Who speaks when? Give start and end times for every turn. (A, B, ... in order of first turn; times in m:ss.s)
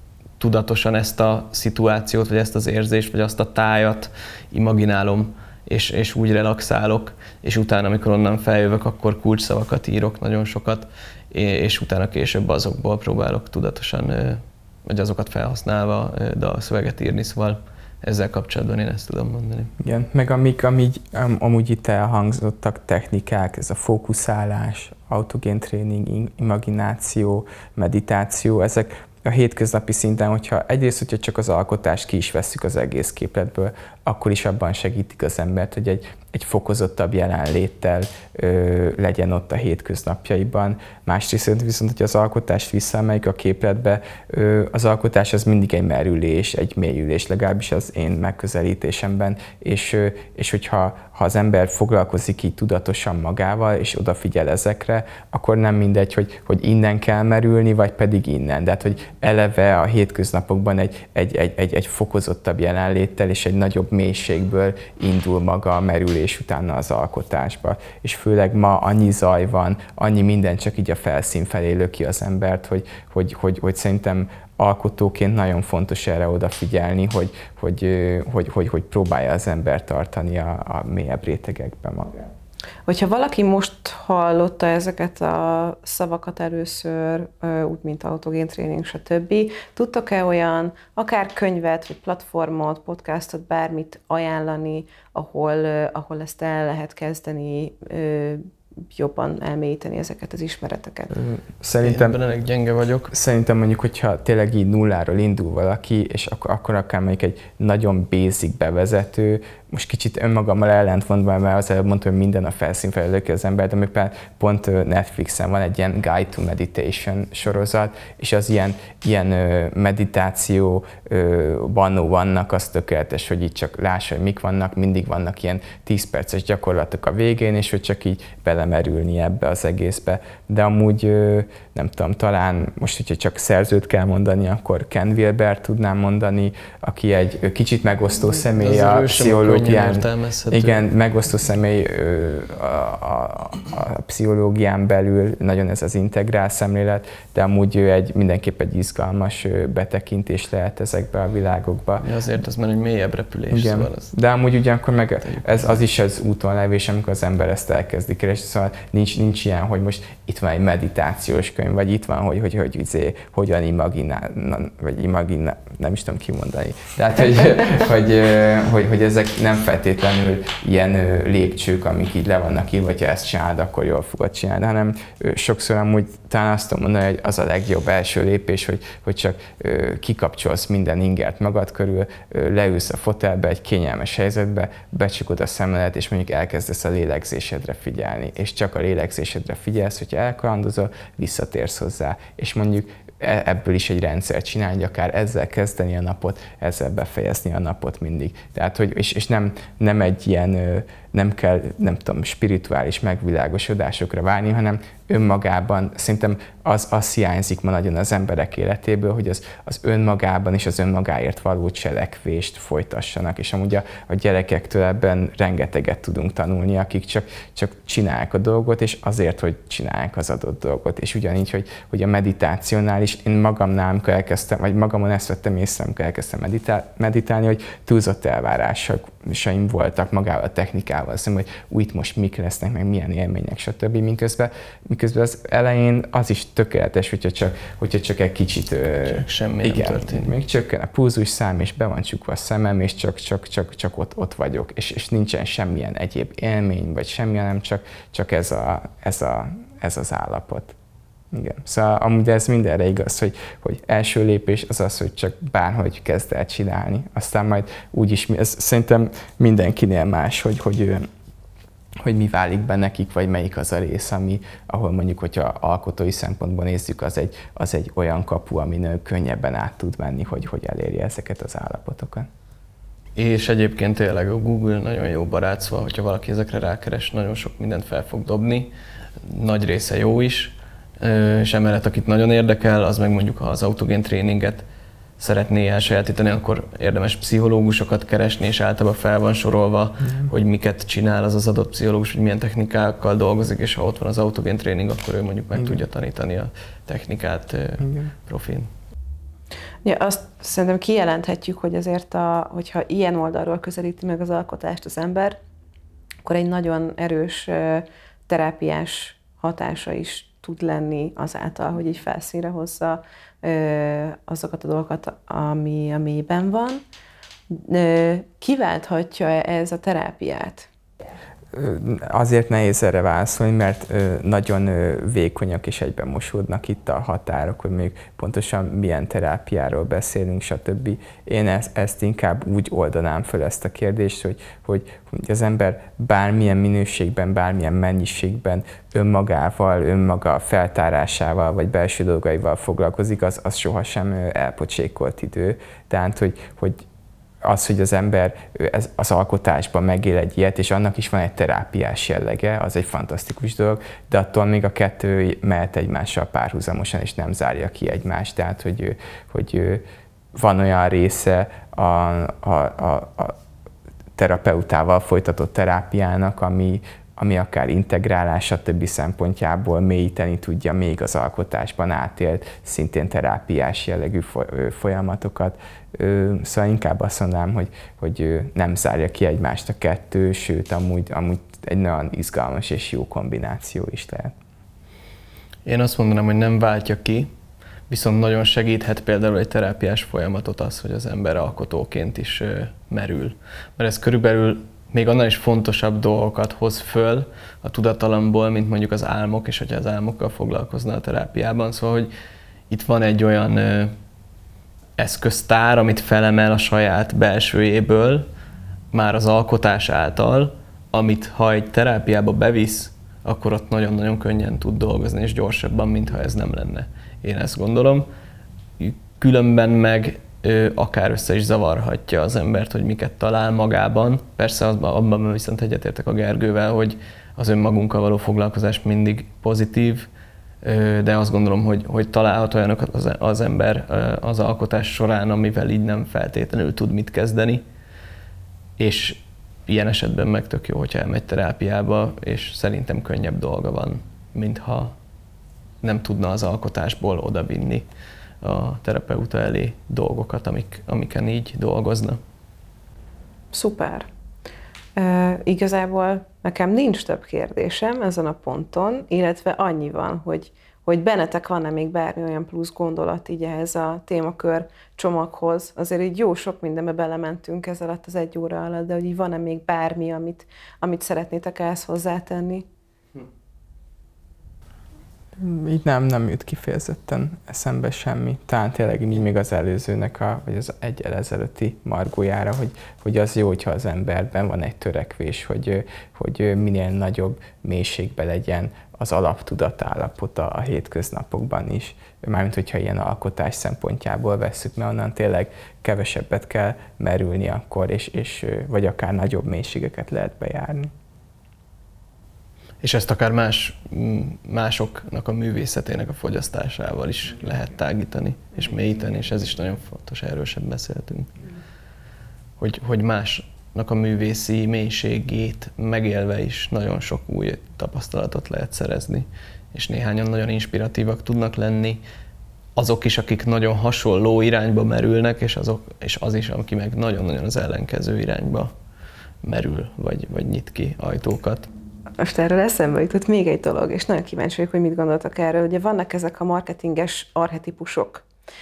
0:00.4-0:19.7 A
0:19.8-1:22.3 B
1:22.9-1:41.1 C
1:41.1-1:42.2 B
1:41.8-1:43.1 A
1:43.1-2:32.1 B
2:18.6-2:20.8 A
2:32.0-2:34.1 A
2:33.5-4:10.8 B
2:35.3-2:35.7 A
3:59.0-4:00.4 A
4:11.3-4:21.1 B
4:22.0-4:32.3 B
4:33.2-4:38.7 A
4:39.2-4:44.6 A
4:45.2-4:58.7 A
4:55.6-4:55.8 B
4:57.8-4:58.1 B
4:59.8-5:05.4 C
5:06.2-5:16.8 C
5:17.5-5:20.7 C
5:21.5-5:46.8 B
5:47.4-5:59.8 B
6:00.4-6:03.4 B
6:04.2-6:24.3 B
6:25.7-6:27.3 A
6:27.9-6:42.1 A
6:42.7-6:44.0 A
6:45.0-6:48.3 A
6:48.9-6:58.1 A
6:58.8-7:10.1 A
7:10.6-7:17.6 A
7:18.8-7:25.0 A
7:25.8-7:27.9 A
7:28.4-7:32.2 A
7:33.5-7:34.1 C
7:35.0-7:52.7 C
7:55.4-8:20.9 B
8:22.8-8:31.3 A
8:32.6-8:42.0 A
8:42.8-8:48.7 A
8:49.4-8:51.7 A
8:52.2-8:58.2 C